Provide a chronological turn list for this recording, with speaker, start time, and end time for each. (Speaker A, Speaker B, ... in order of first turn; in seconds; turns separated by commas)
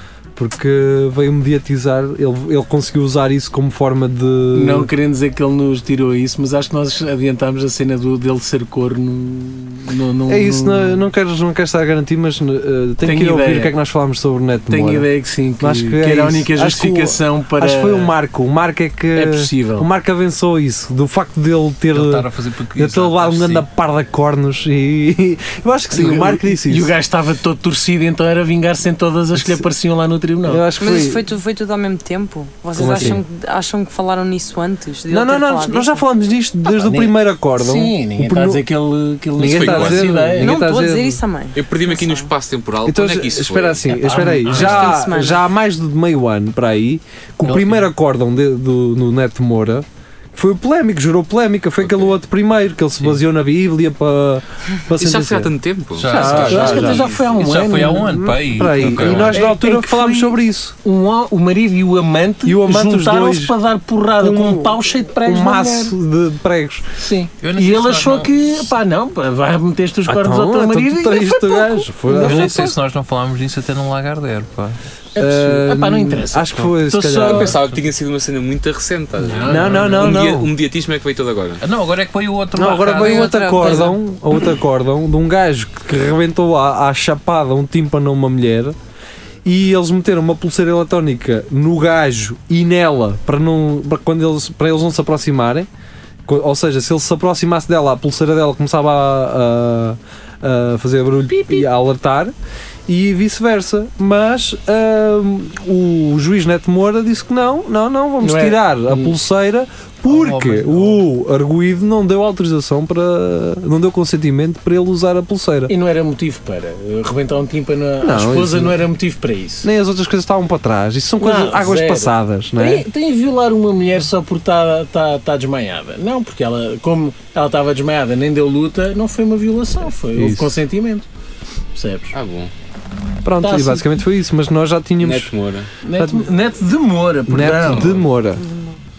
Speaker A: 0.3-4.9, Speaker B: 4.5-11.0, Speaker A: 10.3-15.1, Speaker B: 13.0-13.8, Speaker B: 14.7-18.1, Speaker A: 15.6-26.9, Speaker B: 19.1-19.9, Speaker C: 21.9-23.7, Speaker B: 25.9-30.6, Speaker A: 29.4-29.6, Speaker A: 30.4-31.2, Speaker D: 30.8-36.0, Speaker A: 32.8-33.2, Speaker B: 32.8-33.2, Speaker A: 35.1-38.6, Speaker B: 36.8-40.6, Speaker A: 39.4-41.2, Speaker E: 39.4-40.1, Speaker D: 40.4-42.3, Speaker E: 41.5-44.0, Speaker A: 42.9-55.5, Speaker B: 43.9-45.0, Speaker D: 44.5-45.4, Speaker C: 47.5-47.8, Speaker E: 51.8-52.1, Speaker E: 55.0-57.4, Speaker C: 56.0-59.5, Speaker A: 56.0-57.1, Speaker B: 56.4-58.2, Speaker A: 57.8-60.8, Speaker B: 58.7-65.9, Speaker A: 62.5-63.5, Speaker A: 64.2-66.9, Speaker B: 67.0-72.6, Speaker C: 67.4-68.4, Speaker A: 70.1-72.8, Speaker C: 72.1-74.8, Speaker B: 75.2-77.6, Speaker A: 75.2-77.6, Speaker E: 77.2-81.6, Speaker B: 79.2-80.3, Speaker A: 79.5-80.5, Speaker C: 81.6-83.7, Speaker A: 82.6-88.8, Speaker D: 82.9-84.0, Speaker A: 89.4-95.7, Speaker A: 96.3-102.3, Speaker B: 101.3-101.7, Speaker A: 102.9-115.7, Speaker B: 108.2-109.1, Speaker C: 110.1-111.0, Speaker B: 115.7-119.7, Speaker A: 118.0-118.8, Speaker A: 119.6-122.9, Speaker B: 121.2-131.1, Speaker A: 130.2-130.6, Speaker B: 131.7-132.2, Speaker E: 132.1-132.5, Speaker A: 133.2-135.3, Speaker B: 133.4-133.9, Speaker E: 135.0-135.7, Speaker B: 135.8-138.0, Speaker A: 136.0-136.3, Speaker A: 137.3-138.4, Speaker D: 138.4-138.8